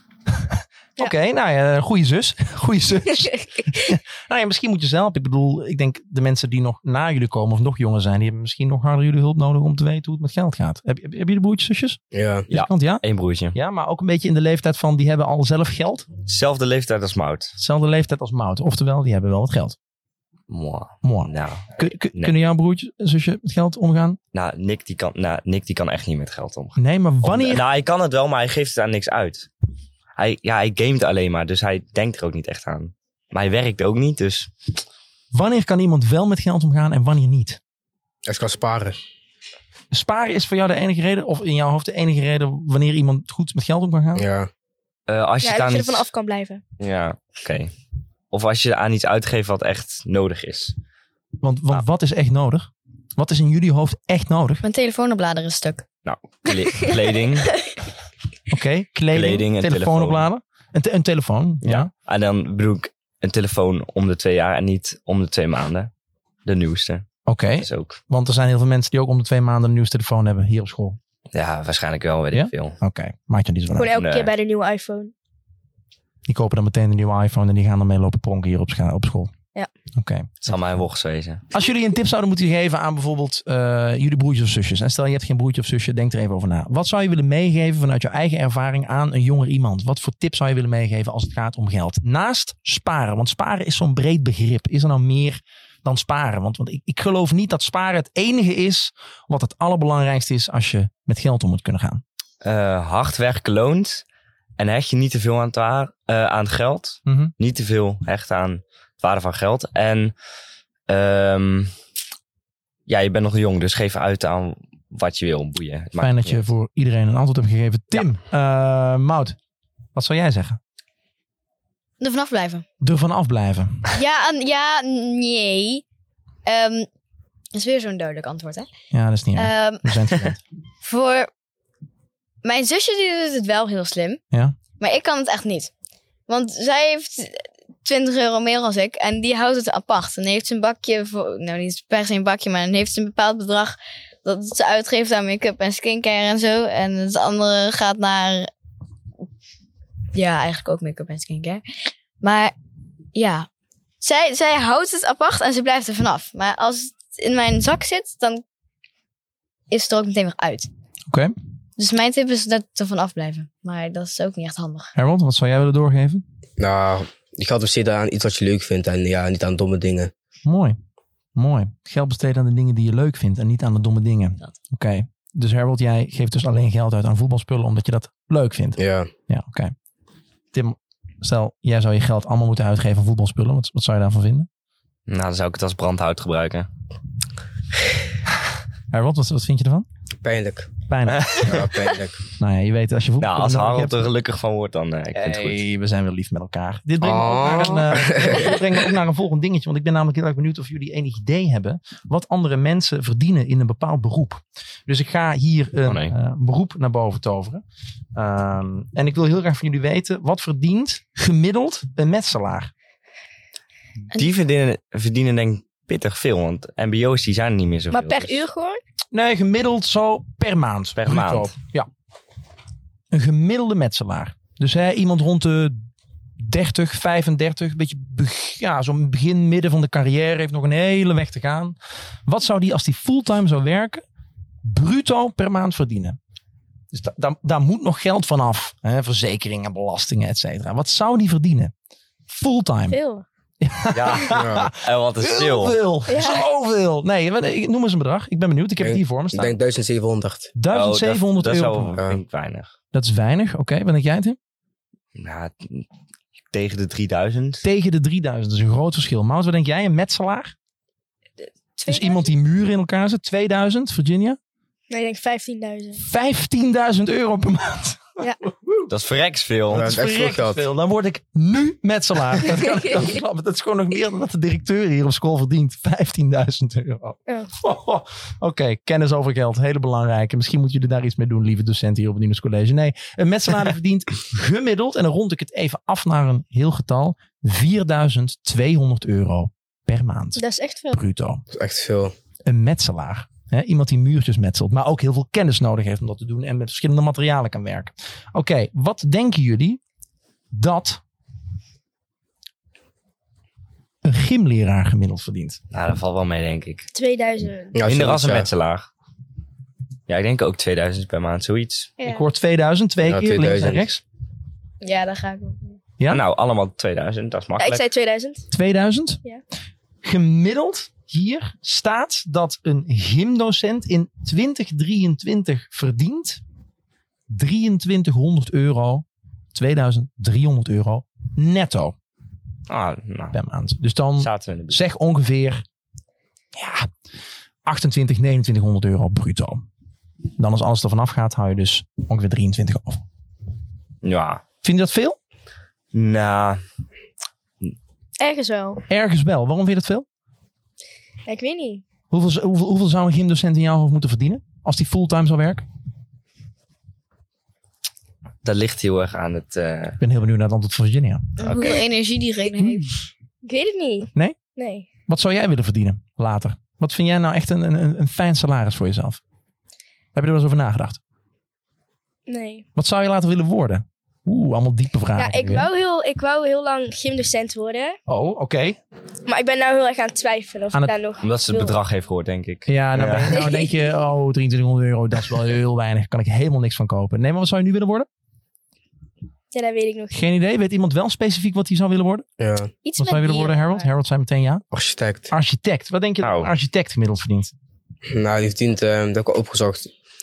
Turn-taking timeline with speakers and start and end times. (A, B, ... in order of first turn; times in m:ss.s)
0:00.3-0:16.1 A
0:12.1-0:12.5 B
0:12.5-0:13.6 C
0:16.3-0:17.6 C
0:17.6-0:19.8 A
0:20.5-0:22.4 C
0:21.0-0:24.2 A
0:24.3-0:29.5 C
0:26.8-0:27.6 A
0:30.2-0:34.5 C
0:35.3-0:37.6 A
0:38.3-0:39.0 B
0:39.9-0:44.2 A
0:44.2-0:44.5 B
0:45.1-0:46.1 C
0:45.4-0:46.6 D
0:46.8-0:47.7 C
0:48.3-0:50.8 C
0:51.4-0:54.6 A
0:54.6-0:55.8 E
0:56.0-0:57.5 C
0:58.5-1:01.9 A
0:59.1-1:00.3 C
1:01.6-1:05.9 C
1:06.4-1:07.1 C
1:07.3-1:11.0 A
1:07.6-1:08.0 C
1:11.3-1:12.8 C
1:12.3-1:13.9 A
1:13.8-1:15.1 D
1:14.0-1:14.3 C
1:16.3-1:19.3 A
1:20.0-1:20.5 A
1:20.4-1:21.4 C
1:21.5-1:42.0 A
1:42.4-1:44.0 C
1:44.6-1:50.1 C
1:47.1-1:47.3 A
1:50.9-1:51.7 C
1:52.9-1:56.5 C
1:56.0-1:59.4 A
2:00.0-2:00.6 A
2:02.0-2:02.6 E
2:02.8-2:03.9 A
2:03.9-2:05.8 E
2:06.5-2:06.9 E
2:07.5-2:08.7 E
2:08.9-2:10.4 A
2:09.4-2:10.0 E
2:10.8-2:11.3 E
2:12.4-2:14.2 E
2:14.8-2:15.7 E
2:16.3-2:28.5 E
2:30.2-2:31.6 E
2:32.2-2:32.5 E
2:33.1-2:33.5 E
2:34.0-2:38.4 E
2:39.7-2:40.7 E
2:41.8-2:44.9 E
2:45.0-2:46.2 A
2:46.6-2:50.1 B
2:50.4-2:50.8 A
2:51.4-2:59.7 A
2:58.8-2:59.1 B
3:00.5-3:04.5 A
3:05.1-3:06.7 C
3:08.9-3:09.9 A
3:10.2-3:10.7 B
3:10.9-3:11.5 A
3:11.1-3:11.7 C
3:11.4-3:12.2 B
3:12.4-3:14.1 A
3:13.2-3:15.6 C
3:15.1-3:27.6 A
3:17.0-3:18.6 B
3:25.8-3:26.1 C
3:28.2-3:32.7 A
3:34.1-3:38.4 C
3:37.9-3:38.8 D
3:39.1-3:41.9 A
3:41.0-3:41.6 C
3:43.1-3:45.8 A
3:46.4-3:54.0 A
3:54.6-3:56.2 A
3:56.9-4:01.7 A
4:02.3-4:03.0 A
4:02.9-4:03.2 D
4:03.6-4:09.6 A
4:03.9-4:05.8 C
4:04.3-4:04.7 B
4:06.1-4:06.4 D
4:08.8-4:10.5 B
4:10.6-4:12.0 A
4:10.7-4:12.7 C
4:12.9-4:14.4 A
4:15.2-4:15.9 C
4:16.5-4:17.6 C
4:17.6-4:20.5 A
4:21.9-4:24.4 A
4:24.9-4:26.1 D
4:26.0-4:28.9 A
4:28.9-4:29.9 C
4:29.7-4:51.4 A
4:29.7-4:30.7 B
4:50.4-4:51.0 D
4:51.5-4:52.1 B
4:52.5-4:59.8 A
5:00.5-5:01.0 A
5:04.0-5:05.6 A
5:05.7-5:06.9 C
5:06.9-5:07.8 D
5:07.8-5:08.5 B
5:07.8-5:08.9 C
5:10.1-5:11.9 C
5:12.0-5:12.2 D
5:12.0-5:14.0 A
5:13.0-5:13.9 B
5:14.8-5:15.8 E
5:16.1-5:17.8 C
5:17.6-5:18.5 D
5:18.5-5:19.2 A
5:20.0-5:26.4 A
5:27.3-5:32.0 A
5:32.7-5:33.4 C
5:33.3-5:35.6 A
5:34.2-5:34.8 C
5:36.6-5:36.9 A
5:37.6-5:39.6 A
5:40.4-5:43.0 A
5:44.0-5:44.4 C
5:44.6-5:45.2 A
5:45.9-5:46.6 C
5:48.2-5:48.8 D
5:48.9-5:50.1 A
5:51.3-5:51.8 D
5:52.1-5:55.6 A
5:58.4-6:00.0 C
6:00.0-6:01.5 A
6:01.4-6:02.9 E
6:03.4-6:04.9 D
6:05.1-6:09.2 A
6:10.2-6:11.0 A
6:12.3-6:12.6 D
6:12.8-6:15.7 A
6:15.2-6:18.0 D
6:18.1-6:18.8 A
6:19.3-6:21.8 D
6:21.2-6:23.5 C
6:22.7-6:28.1 A
6:29.5-6:30.2 D
6:30.1-6:32.3 A
6:32.4-6:32.7 B
6:32.9-6:33.8 D
6:33.0-6:34.6 A
6:34.7-6:35.3 B
6:35.3-6:37.5 A
6:36.2-6:36.5 C
6:38.1-6:39.9 B